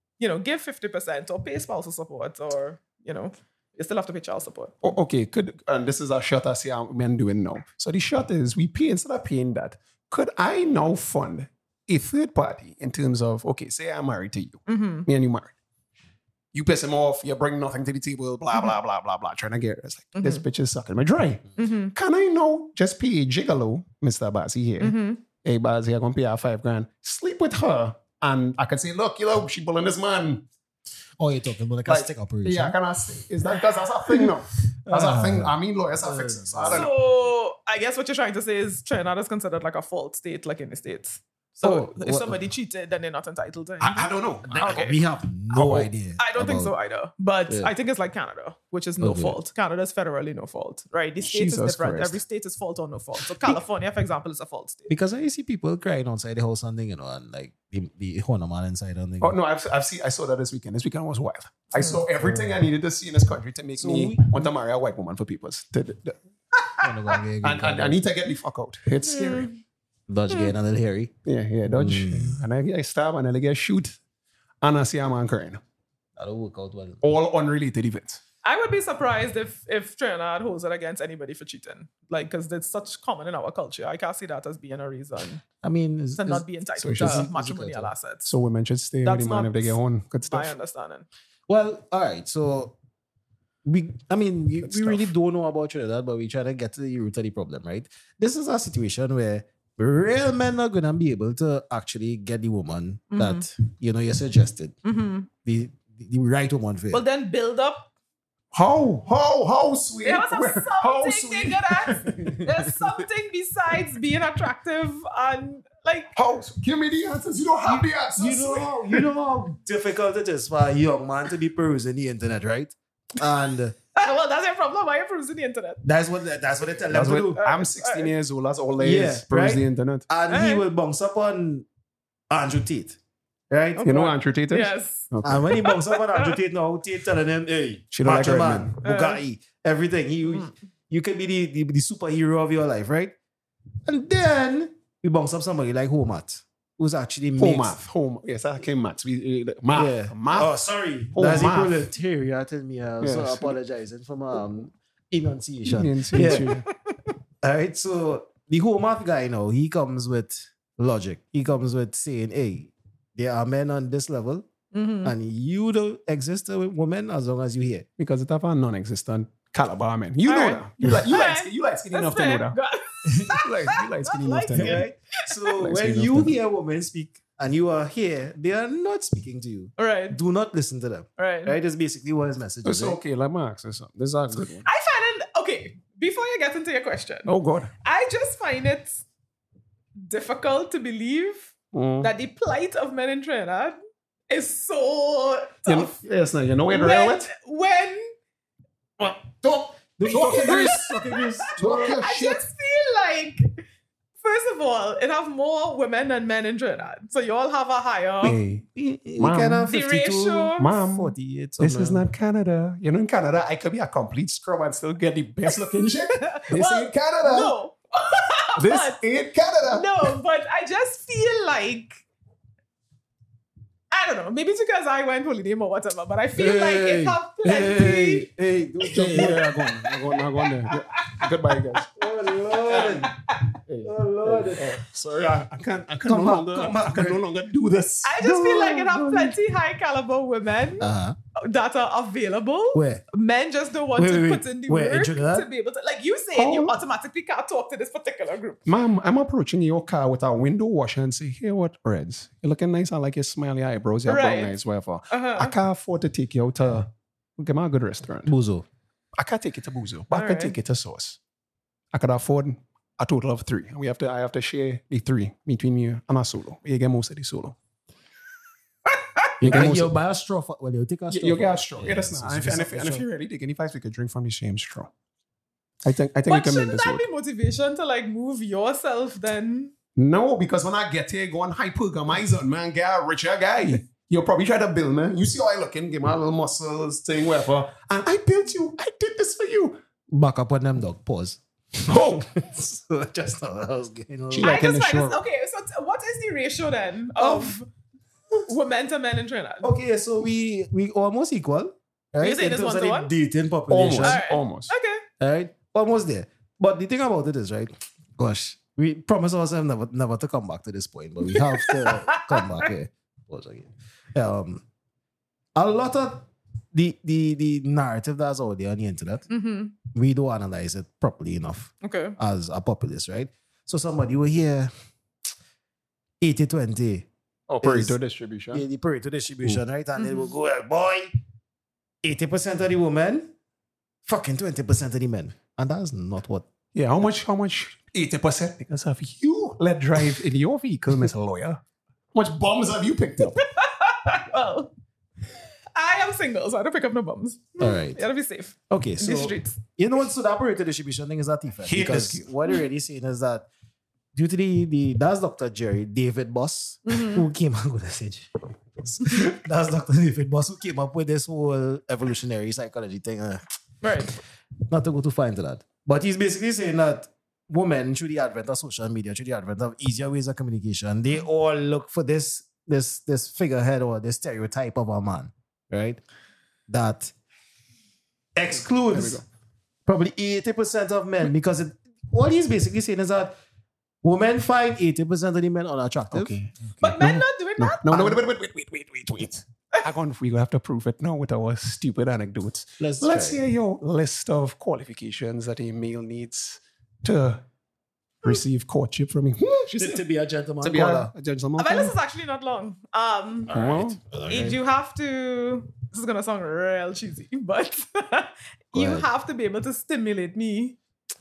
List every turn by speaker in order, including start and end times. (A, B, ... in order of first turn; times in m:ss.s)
0:00.2-0:04.9 A
0:04.8-0:15.5 B
0:14.7-0:15.1 A
0:16.5-0:30.4 B
0:20.2-0:20.4 A
0:21.6-0:21.9 A
0:24.8-0:25.2 A
0:31.2-0:32.8 C
0:31.8-0:36.9 B
0:34.9-0:36.9 C
0:36.7-0:45.0 A
0:41.6-0:42.4 C
0:43.8-0:45.0 B
0:44.5-0:46.7 C
0:45.5-0:45.9 B
0:46.2-0:54.9 A
0:49.0-0:49.4 C
0:51.2-0:52.2 B
0:54.9-0:59.4 C
0:59.2-1:06.2 B
1:02.2-1:02.7 C
1:03.8-1:04.5 C
1:06.8-1:08.0 C
1:07.4-1:09.5 B
1:09.0-1:09.6 A
1:10.1-1:11.1 C
1:11.2-1:14.0 B
1:11.7-1:12.4 C
1:14.6-1:15.6 B
1:16.2-1:17.0 C
1:17.0-1:18.2 B
1:18.4-1:25.4 A
1:25.6-1:27.9 C
1:26.2-1:28.3 A
1:26.8-1:27.3 B
1:28.2-1:30.5 B
1:29.0-1:31.0 A
1:31.5-1:32.7 C
1:33.6-1:44.8 C
1:34.6-1:35.1 B
1:43.1-1:43.5 A
1:44.8-1:45.3 A
1:45.4-1:47.0 C
1:46.9-1:47.9 A
1:48.5-1:52.5 B
1:50.0-1:56.1 A
1:56.1-1:59.1 B
1:57.6-2:03.8 C
2:04.0-2:05.8 A
2:05.8-2:07.4 C
2:06.9-2:10.1 B
2:07.3-2:08.1 A
2:08.8-2:11.6 C
2:10.3-2:10.6 A
2:12.3-2:13.0 C
2:13.5-2:13.8 C
2:13.8-2:16.4 A
2:13.8-2:15.5 B
2:15.2-2:23.1 C
2:17.9-2:18.7 B
2:18.8-2:19.2 A
2:23.8-2:27.8 C
2:27.4-2:30.6 B
2:29.7-2:36.5 C
2:31.1-2:31.9 B
2:33.0-2:33.5 B
2:35.7-2:36.6 B
2:36.1-2:36.7 A
2:37.4-2:44.5 C
2:44.7-2:45.1 A
2:45.0-2:47.9 C
2:48.0-2:52.6 B
2:50.2-2:55.3 A
2:53.3-2:54.8 B
2:54.5-3:03.0 C
2:55.6-2:56.4 B
2:59.8-3:00.2 A
3:01.2-3:01.6 A
3:02.6-3:04.6 B
3:04.6-3:07.3 A
3:07.2-3:07.7 B
3:07.8-3:09.0 A
3:10.0-3:13.8 A
3:11.7-3:12.1 B
3:14.3-3:16.0 A
3:15.7-3:17.3 B
3:16.7-3:18.2 A
3:19.3-3:22.0 C
3:20.0-3:23.6 A
3:20.1-3:20.8 B
3:21.5-3:22.4 B
3:24.2-3:28.4 A
3:28.2-3:28.6 B
3:28.8-3:32.0 C
3:29.2-3:29.7 B
3:29.7-3:30.7 A
3:30.6-3:37.6 B
3:35.5-3:39.0 A
3:38.6-3:40.1 B
3:39.6-3:42.0 A
3:43.9-3:48.3 A
3:46.4-3:49.4 C
3:48.8-3:51.5 A
3:48.9-3:51.9 B
3:51.9-3:53.1 C
3:52.6-3:59.2 B
3:52.7-3:53.5 A
3:53.8-3:54.8 C
3:56.0-3:57.2 C
3:58.0-4:08.6 A
4:00.8-4:01.2 C
4:02.7-4:03.0 C
4:04.0-4:05.5 C
4:06.3-4:06.8 B
4:08.6-4:18.3 B
4:14.0-4:14.6 A
4:15.1-4:15.6 A
4:18.2-4:18.6 C
4:19.2-4:21.2 B
4:20.1-4:20.6 A
4:21.9-4:27.6 B
4:29.4-4:33.0 C
4:29.4-4:30.0 B
4:31.1-4:34.9 B
4:35.8-4:37.0 B
4:36.2-4:39.7 A
4:40.0-4:49.8 B
4:50.1-4:54.6 C
4:51.9-4:52.2 B
4:54.3-4:55.2 B
4:54.4-4:57.7 A
4:57.2-4:57.5 C
4:58.4-4:59.7 A
4:59.6-5:04.2 C
5:02.2-5:03.1 A
5:03.7-5:04.7 B
5:04.0-5:05.0 A
5:05.2-5:14.6 C
5:11.3-5:12.7 A
5:15.6-5:19.3 C
5:19.3-5:19.7 A
5:19.9-5:24.7 C
5:21.8-5:22.2 A
5:26.2-5:27.1 C
5:27.5-5:28.6 B
5:27.6-5:28.0 C
5:28.5-5:31.1 C
5:30.0-5:30.3 A
5:32.0-5:33.3 C
5:34.0-5:36.5 C
5:36.7-5:41.6 B
5:42.1-5:43.4 B
5:43.2-5:44.7 A
5:45.3-5:49.6 A
5:47.6-5:48.0 C
5:48.7-5:53.5 C
5:51.6-5:52.3 B
5:54.1-6:03.4 C
5:56.8-5:57.2 A
6:03.8-6:04.1 A
6:04.7-6:16.0 C
6:16.7-6:17.1 C
6:18.4-6:19.2 C
6:18.9-6:19.2 B
6:19.8-6:23.3 C
6:24.0-6:27.2 C
6:26.1-6:26.4 B
6:26.8-6:28.1 A
6:27.0-6:37.4 B
6:32.8-6:33.4 C
6:38.2-6:40.0 B
6:39.8-6:41.1 C
6:40.6-6:41.9 B
6:41.6-6:43.5 A
6:43.5-6:44.6 C
6:43.5-6:44.0 B
6:44.2-6:50.8 A
6:48.7-6:49.1 C